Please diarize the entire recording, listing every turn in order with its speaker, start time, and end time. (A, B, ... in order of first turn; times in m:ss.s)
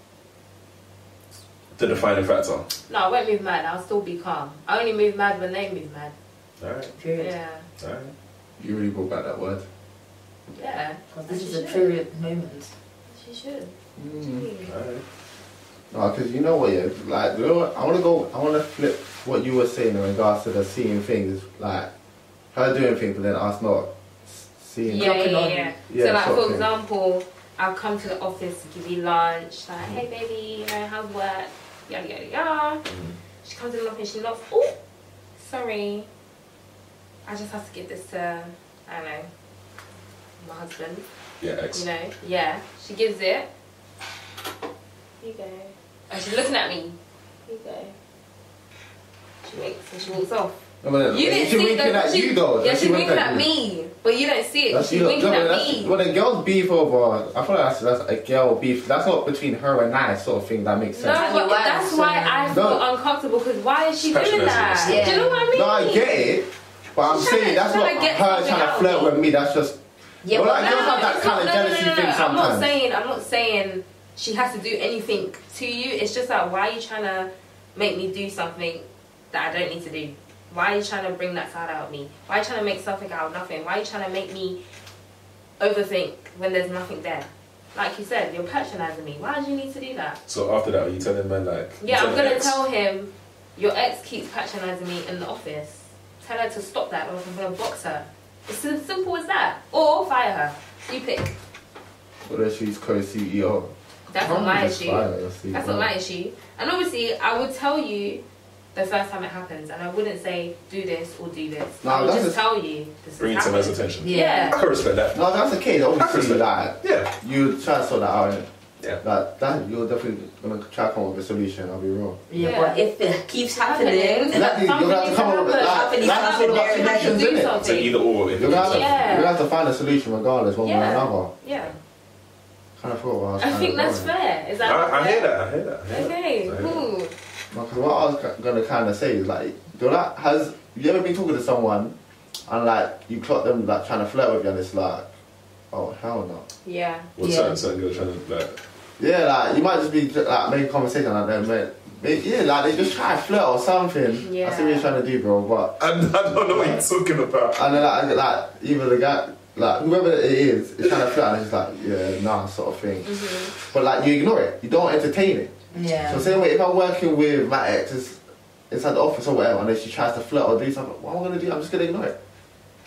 0:01.8-0:02.7 A
0:02.9-0:06.1 B
0:06.6-0:06.9 A
0:07.0-0:07.3 C
0:07.2-0:07.7 B
0:07.8-0:08.1 A
0:08.6-0:09.6 D
0:10.6-0:12.0 B
0:11.1-0:12.7 C
0:13.1-0:14.7 B
0:14.0-0:14.5 D
0:14.6-0:15.0 A
0:15.9-0:21.9 D
0:22.5-0:25.2 D
0:24.8-0:32.8 B
0:24.9-0:25.7 C
0:25.9-0:26.7 D
0:32.9-0:33.2 A
0:33.4-0:34.8 B
0:35.4-0:36.1 B
0:37.3-0:39.3 B
0:40.4-0:41.0 B
0:41.4-0:41.9 A
0:41.7-0:43.5 B
0:45.2-0:47.0 B
0:47.5-0:47.9 B
0:49.4-0:50.5 B
0:50.8-0:53.5 D
0:51.1-0:56.0 B
0:54.7-1:01.3 D
1:00.9-1:06.3 B
1:01.1-1:02.6 C
1:02.5-1:02.8 D
1:04.0-1:05.2 A
1:04.8-1:05.5 C
1:05.5-1:09.8 D
1:07.0-1:09.1 B
1:10.2-1:11.2 C
1:10.3-1:12.7 D
1:10.5-1:24.6 B
1:25.6-1:30.2 B
1:30.3-1:32.6 A
1:31.8-1:41.4 B
1:42.2-1:45.9 D
1:44.1-1:48.2 B
1:48.8-1:54.6 B
1:51.8-1:52.4 D
1:53.2-1:55.3 A
1:54.0-1:54.6 C
1:55.1-1:58.5 D
1:56.0-1:57.1 A
1:59.0-2:02.2 D
2:02.3-2:04.5 C
2:02.4-2:02.8 B
2:03.6-2:09.4 B
2:04.3-2:07.6 D
2:05.5-2:07.3 C
2:07.6-2:09.0 A
2:08.3-2:11.3 D
2:10.6-2:11.8 B
2:12.8-2:14.1 D
2:13.4-2:15.3 B
2:14.6-2:16.8 A
2:15.9-2:17.2 B
2:17.5-2:22.0 D
2:22.5-2:25.1 D
2:25.7-2:26.4 D
2:26.6-2:27.1 B
2:27.2-2:28.6 A
2:27.2-2:27.6 C
2:29.0-2:35.8 D
2:34.2-2:35.0 B
2:35.8-2:37.6 A
2:36.5-2:36.8 D
2:37.6-2:45.5 D
2:43.0-2:43.5 B
2:45.7-2:46.3 C
2:46.0-2:52.2 D